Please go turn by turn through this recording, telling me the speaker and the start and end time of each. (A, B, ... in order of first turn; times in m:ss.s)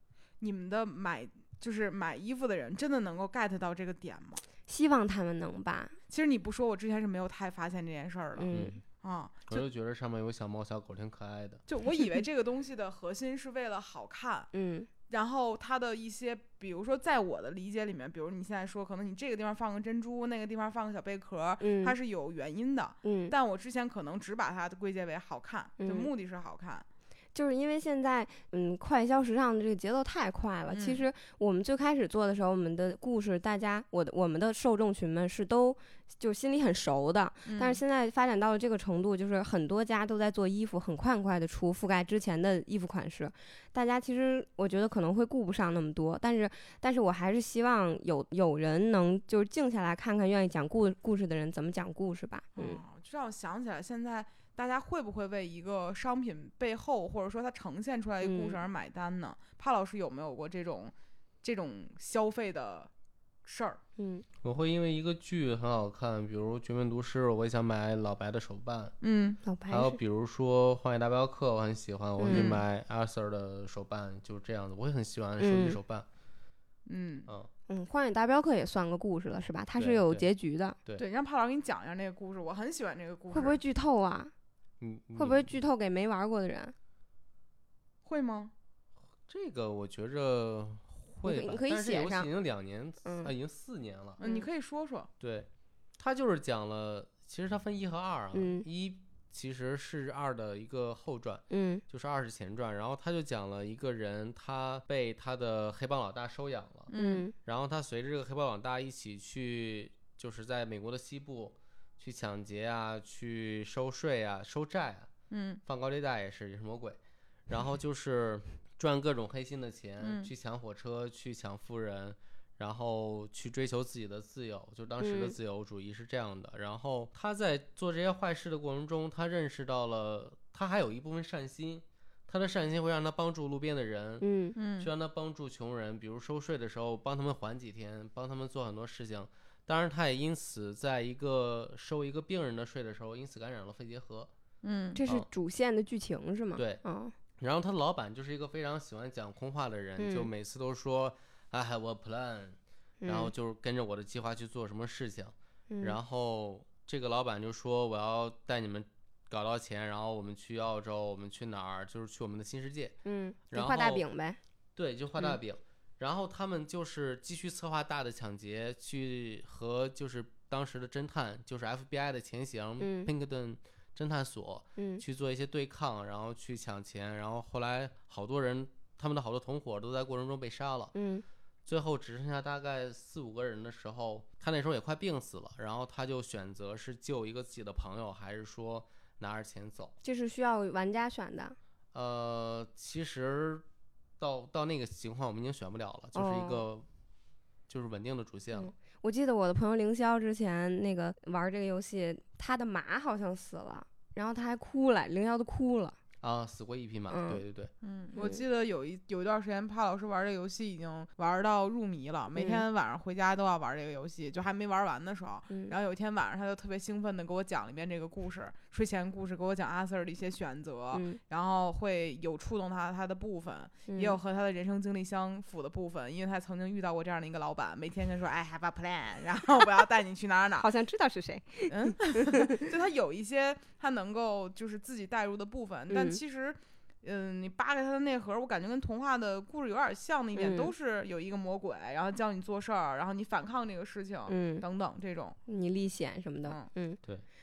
0:00.4-0:04.4 A
0:04.7-0:06.0 B
0:06.1-0:08.5 A
0:08.4-0:08.8 B
0:08.5-0:08.8 C
0:09.0-0:09.6 A
0:09.5-0:11.6 C
0:11.7-0:14.5 A
0:14.5-0:14.9 B
0:15.1-0:26.8 A
0:21.6-0:22.0 B
0:23.0-0:23.3 B
0:25.8-0:26.1 B
0:27.3-0:52.8 B
0:30.7-0:31.0 A
0:37.4-0:37.8 A
0:52.6-1:02.9 A
0:58.2-0:58.6 B
1:03.4-1:03.8 A
1:04.0-1:04.2 B
1:04.4-1:09.0 C
1:09.0-1:09.4 A
1:09.4-1:10.0 B
1:09.7-1:16.1 C
1:12.2-1:12.5 B
1:12.3-1:12.6 A
1:15.4-1:15.8 B
1:16.9-1:17.3 A
1:17.7-1:20.8 B
1:19.8-1:20.2 C
1:21.0-1:23.6 A
1:23.3-1:24.3 B
1:24.8-1:25.5 C
1:25.2-1:26.8 B
1:28.0-1:28.5 A
1:29.3-1:34.2 C
1:31.2-1:32.3 B
1:33.0-1:33.3 B
1:34.2-1:35.1 A
1:34.2-1:34.5 B
1:35.2-1:46.9 C
1:38.3-1:38.7 B
1:41.5-1:41.8 B
1:46.9-1:47.2 A
1:47.0-1:47.3 B
1:47.4-1:55.1 C
1:55.3-1:55.6 A
1:55.7-2:14.3 C
2:00.0-2:00.3 A
2:05.0-2:05.4 B
2:14.2-2:14.6 B
2:14.6-2:14.9 A
2:14.8-2:24.3 C
2:24.6-2:25.0 A
2:25.0-2:27.2 B
2:26.6-2:26.8 C
2:27.4-2:42.9 C
2:30.0-2:30.3 B
2:33.0-2:33.3 B
2:35.7-2:36.0 B
2:43.0-2:44.4 B
2:43.5-2:44.0 C
2:44.8-3:00.9 C
2:52.8-2:53.1 B
2:54.8-2:55.0 B
3:00.9-3:01.2 B
3:01.7-3:09.9 C
3:10.0-3:11.6 B
3:11.9-3:13.6 C
3:14.2-3:16.9 C
3:16.1-3:16.6 B
3:17.7-3:18.7 C
3:18.5-3:26.0 B
3:26.2-3:27.7 C
3:27.1-3:27.4 B
3:27.8-3:50.7 A
3:28.2-3:28.4 B
3:32.3-3:32.6 B
3:40.9-3:41.2 B
3:43.9-3:44.2 B
3:50.6-3:52.6 B
3:51.7-4:05.4 A
3:55.9-3:56.2 B
4:00.4-4:00.7 B
4:04.3-4:04.6 B
4:05.5-4:07.0 B